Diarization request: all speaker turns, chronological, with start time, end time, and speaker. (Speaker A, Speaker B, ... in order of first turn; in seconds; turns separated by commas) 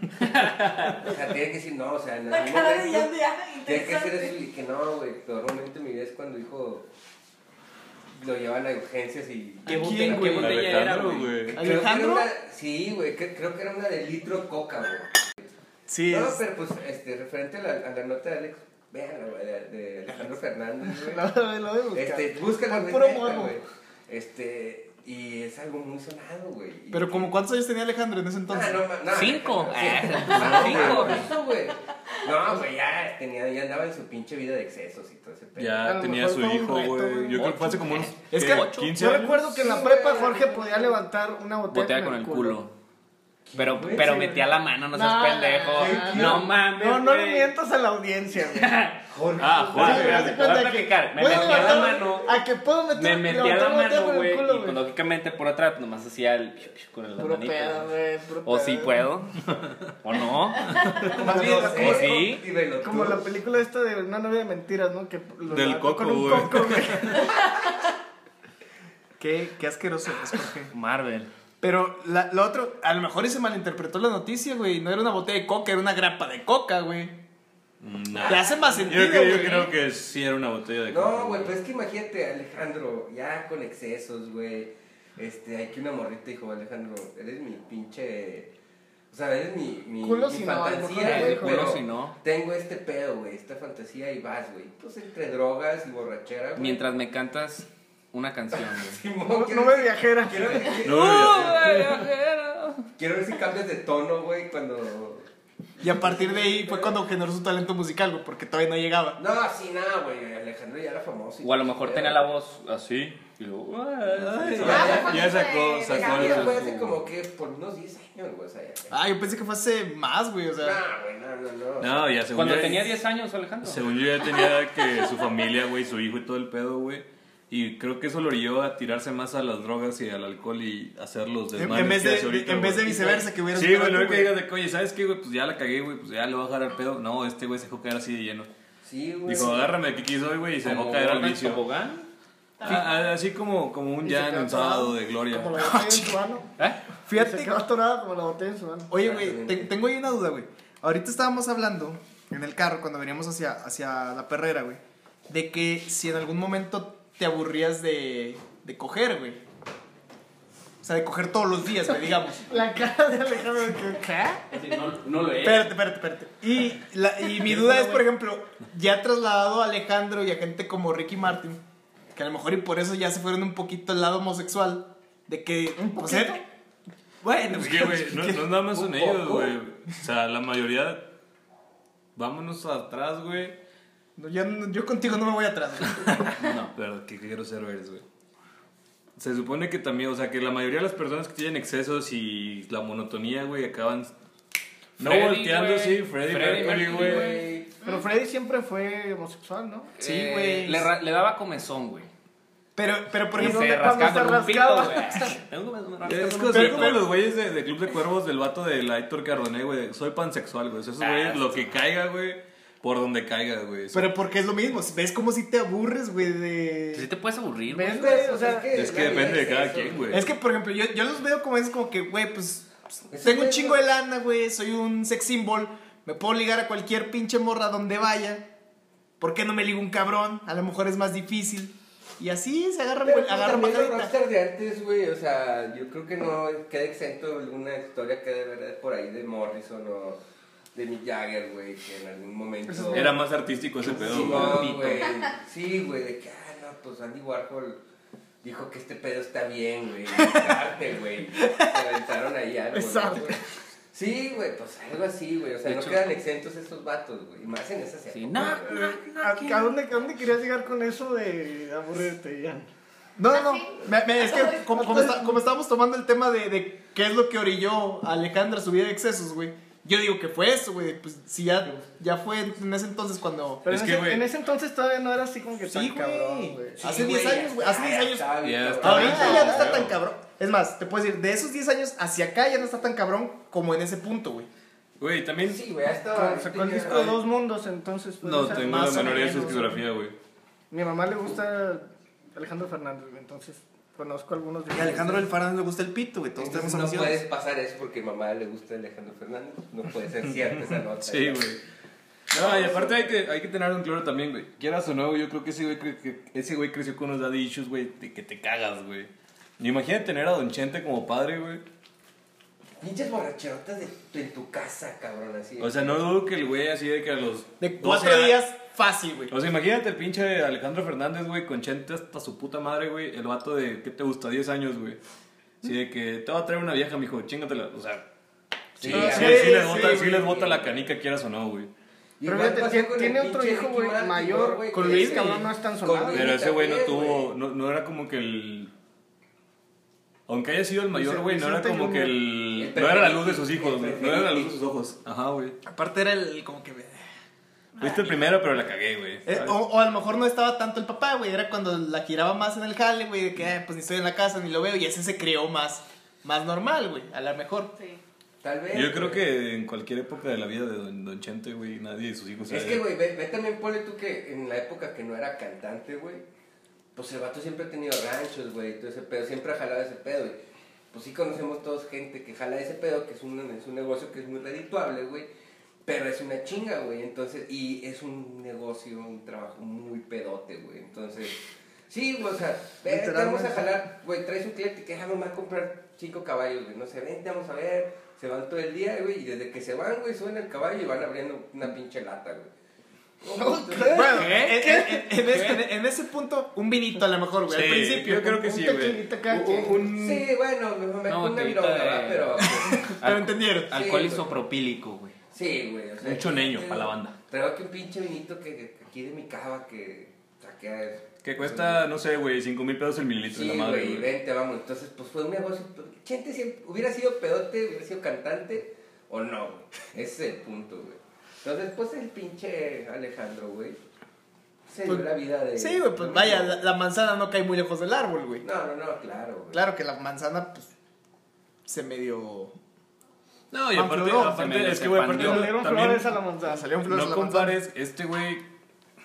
Speaker A: 0.2-1.0, Speaker B: 0.9-6.9, Speaker C: 2.3-4.4, Speaker B: 8.2-10.6, Speaker D: 9.7-10.5, Speaker A: 9.7-11.5, Speaker E: 10.1-11.6, Speaker D: 11.5-12.3, Speaker B: 11.6-15.5, Speaker D: 15.9-16.4, Speaker B: 16.1-21.3, Speaker F: 20.9-23.5, Speaker B: 21.9-27.3, Speaker D: 26.9-28.8, Speaker B: 28.5-35.9, Speaker A: 29.1-31.3, Speaker E: 30.4-31.2, Speaker D: 30.6-31.0, Speaker E: 35.5-39.5, Speaker F: 35.8-37.4, Speaker D: 36.3-37.6, Speaker A: 37.8-38.9, Speaker D: 38.3-40.2, Speaker F: 38.9-42.6, Speaker B: 39.6-40.9, Speaker A: 41.7-42.7, Speaker B: 43.5-44.4, Speaker A: 43.5-47.5, Speaker F: 44.9-48.8, Speaker B: 45.8-46.5, Speaker A: 48.5-49.1, Speaker B: 49.1-50.1, Speaker E: 49.4-50.5, Speaker F: 49.7-54.8, Speaker A: 49.7-52.4, Speaker D: 50.1-51.9, Speaker B: 51.2-52.0, Speaker A: 52.9-60.8, Speaker F: 57.2-59.1, Speaker E: 60.8-61.1, Speaker B: 61.0-63.3, Speaker F: 61.1-62.2, Speaker D: 61.2-61.9, Speaker A: 61.3-62.4, Speaker F: 62.8-67.3, Speaker E: 65.5-67.2, Speaker D: 69.2-70.7, Speaker A: 70.7-71.3, Speaker D: 71.6-77.2, Speaker E: 77.8-81.5, Speaker B: 78.2-78.5, Speaker D: 78.2-79.7, Speaker B: 80.9-88.5, Speaker B: 89.1-96.8, Speaker F: 90.0-91.8, Speaker A: 91.0-92.2, Speaker A: 96.6-99.0, Speaker B: 98.5-101.9, Speaker F: 99.3-100.8, Speaker E: 100.8-102.0, Speaker A: 100.8-102.9, Speaker B: 103.0-105.3, Speaker D: 105.8-109.2, Speaker B: 105.8-107.0, Speaker B: 109.2-112.3, Speaker A: 111.4-115.0, Speaker E: 114.0-117.0, Speaker B: 114.5-119.0, Speaker C: 114.6-116.6, Speaker D: 118.9-120.8, Speaker B: 120.6-122.1, Speaker E: 121.8-123.0, Speaker A: 122.3-123.8, Speaker E: 123.6-138.5, Speaker D: 131.5-134.3, Speaker B: 138.8-139.8, Speaker E: 139.2-141.6, Speaker A: 140.6-142.1, Speaker C: 142.6-143.1, Speaker E: 142.6-145.6, Speaker F: 144.0-146.5, Speaker D: 145.6-146.2, Speaker D: 147.1-147.6, Speaker F: 147.1-148.9, Speaker D: 148.9-159.4, Speaker B: 149.0-149.7, Speaker D: 160.8-162.5, Speaker F: 162.4-164.4, Speaker A: 164.5-165.7, Speaker D: 165.4-171.6, Speaker D: 172.1-176.4, Speaker F: 175.8-176.4, Speaker D: 177.2-178.8, Speaker E: 177.5-181.1, Speaker B: 178.8-179.5, Speaker E: 182.2-183.6, Speaker D: 184.2-186.3, Speaker E: 186.1-188.0, Speaker A: 186.4-186.7, Speaker E: 189.2-194.1, Speaker E: 195.0-197.4, Speaker A: 195.0-197.5, Speaker B: 196.5-197.7, Speaker F: 197.8-199.9, Speaker A: 200.0-202.1, Speaker D: 200.0-200.9, Speaker D: 202.8-204.8, Speaker F: 203.3-205.3, Speaker A: 203.3-207.0, Speaker E: 206.0-214.1, Speaker D: 206.5-207.1, Speaker A: 211.0-211.8, Speaker D: 213.9-217.1, Speaker A: 216.9-218.3, Speaker F: 217.7-218.7, Speaker B: 217.9-220.2, Speaker E: 218.7-220.2, Speaker D: 220.1-228.5, Speaker B: 223.1-223.8, Speaker D: 229.2-234.1, Speaker B: 233.0-240.2, Speaker B: 240.7-243.2, Speaker F: 242.7-243.2, Speaker E: 242.9-244.9, Speaker B: 243.8-247.8, Speaker A: 243.9-245.1, Speaker B: 248.4-253.4, Speaker D: 250.1-250.4, Speaker F: 252.7-253.4, Speaker B: 253.9-259.6, Speaker A: 255.6-256.0, Speaker A: 258.1-259.0, Speaker F: 258.7-262.7, Speaker D: 263.2-273.6, Speaker C: 263.3-263.7, Speaker C: 264.3-264.6, Speaker F: 264.8-265.2, Speaker E: 273.6-274.3, Speaker F: 273.6-276.8, Speaker D: 275.6-284.5, Speaker B: 276.8-279.7, Speaker E: 278.4-280.0, Speaker F: 279.0-279.5, Speaker E: 285.0-285.6, Speaker B: 285.4-287.2, Speaker F: 286.1-289.8, Speaker E: 288.2-290.1, Speaker D: 288.5-289.7, Speaker F: 290.7-295.3, Speaker D: 294.7-297.2, Speaker B: 296.4-301.5, Speaker E: 301.0-301.6, Speaker E: 302.3-311.6, Speaker B: 302.3-303.0, Speaker B: 312.8-316.0, Speaker E: 315.6-318.4, Speaker D: 317.6-319.3, Speaker E: 319.3-325.0, Speaker E: 325.6-328.1, Speaker B: 328.8-330.8, Speaker E: 328.8-331.7, Speaker F: 328.9-329.8, Speaker D: 328.9-330.0, Speaker B: 332.2-337.3, Speaker F: 332.2-336.3, Speaker D: 334.8-335.4, Speaker E: 336.1-338.7, Speaker E: 340.3-345.6, Speaker F: 340.9-342.2, Speaker B: 342.5-344.6, Speaker D: 345.6-347.0, Speaker C: 347.8-348.1, Speaker E: 347.8-349.6, Speaker D: 349.2-357.7, Speaker C: 357.7-358.0, Speaker B: 358.4-359.2, Speaker E: 358.7-362.8, Speaker B: 362.5-366.2, Speaker B: 366.9-370.4, Speaker B: 370.9-375.3, Speaker B: 375.8-392.5, Speaker F: 382.9-383.6, Speaker B: 393.2-394.3, Speaker F: 393.3-395.0, Speaker D: 393.9-398.4, Speaker A: 394.1-395.6, Speaker E: 397.5-399.1, Speaker F: 398.4-399.9, Speaker D: 399.3-400.2, Speaker B: 399.5-402.9, Speaker A: 401.1-405.1, Speaker D: 402.8-403.8, Speaker B: 403.7-404.3, Speaker B: 405.3-411.8, Speaker E: 406.0-407.1, Speaker E: 411.2-414.1, Speaker B: 413.3-423.8, Speaker B: 424.7-426.6, Speaker D: 424.8-428.4, Speaker B: 428.4-429.6, Speaker D: 429.5-430.7, Speaker D: 431.6-432.5, Speaker E: 433.5-436.1, Speaker D: 433.7-434.5, Speaker A: 434.1-435.6, Speaker F: 435.1-436.8, Speaker D: 436.4-437.6, Speaker E: 436.8-438.4